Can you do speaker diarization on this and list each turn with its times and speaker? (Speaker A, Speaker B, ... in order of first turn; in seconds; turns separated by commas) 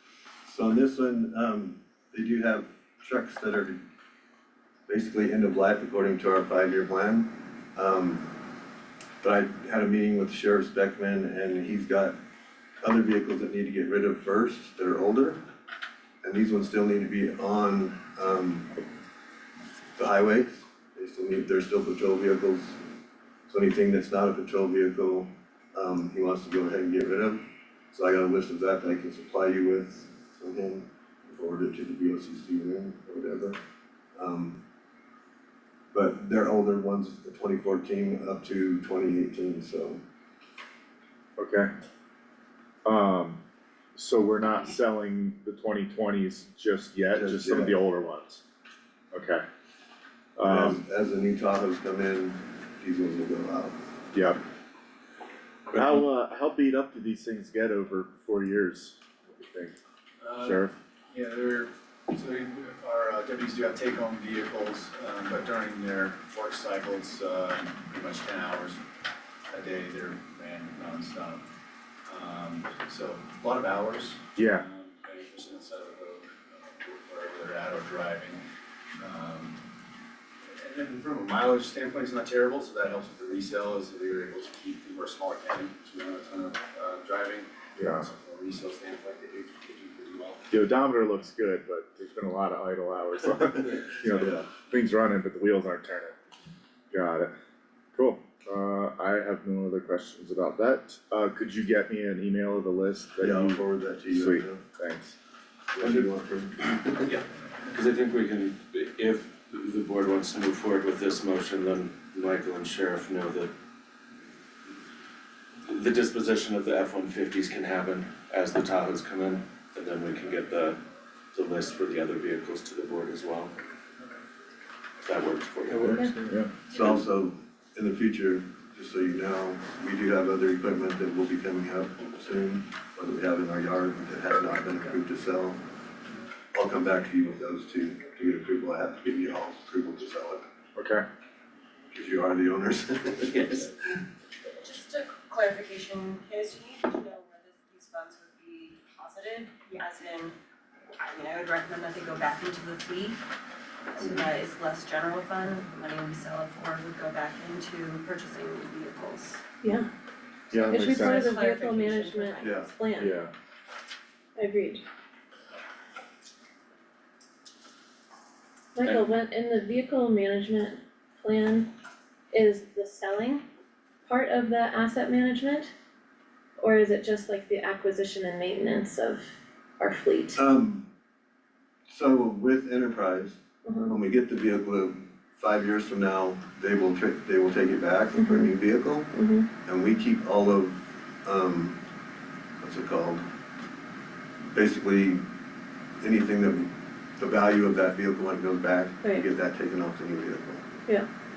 Speaker A: 0.5-3.8, Speaker A: 4.9-8.3, Speaker A: 9.2-12.2, Speaker A: 12.8-15.4, Speaker A: 16.2-18.7, Speaker A: 20.0-22.8, Speaker A: 23.5-33.6, Speaker A: 34.2-34.6, Speaker A: 35.9-40.0, Speaker B: 41.4-41.7, Speaker B: 42.9-43.4, Speaker B: 44.0-48.4, Speaker A: 47.1-47.8, Speaker B: 49.1-49.4, Speaker B: 50.4-50.8, Speaker A: 50.4-53.8, Speaker B: 54.1-54.4, Speaker B: 55.7-59.8, Speaker C: 60.2-68.8, Speaker B: 60.4-60.7, Speaker C: 69.5-71.4, Speaker C: 72.1-78.4, Speaker B: 74.3-74.7, Speaker C: 79.0-79.6, Speaker C: 80.5-90.6, Speaker B: 87.8-88.1, Speaker B: 90.5-96.2, Speaker A: 94.1-94.5, Speaker B: 96.9-97.3, Speaker B: 98.0-105.2, Speaker A: 103.2-104.6, Speaker A: 105.7-107.2, Speaker D: 107.7-113.5, Speaker D: 115.7-120.8, Speaker D: 121.3-123.6, Speaker D: 125.0-126.0, Speaker A: 126.7-135.6, Speaker A: 136.5-140.5, Speaker B: 140.8-141.0, Speaker A: 141.9-144.0, Speaker E: 144.6-150.3, Speaker E: 151.0-153.2, Speaker E: 153.9-159.4, Speaker F: 159.6-159.9, Speaker B: 160.5-161.3, Speaker E: 160.6-162.7, Speaker F: 160.7-163.1, Speaker A: 162.4-162.7, Speaker B: 163.0-163.3, Speaker F: 164.4-164.8, Speaker F: 168.8-171.7, Speaker F: 172.3-173.4, Speaker F: 174.1-175.7, Speaker F: 176.6-179.3, Speaker F: 179.8-180.4, Speaker A: 180.4-180.9, Speaker A: 181.9-189.1, Speaker F: 183.7-184.0, Speaker F: 188.2-188.5, Speaker F: 189.1-189.5, Speaker A: 189.6-191.8, Speaker A: 192.6-193.2, Speaker A: 194.5-195.3, Speaker A: 196.0-200.7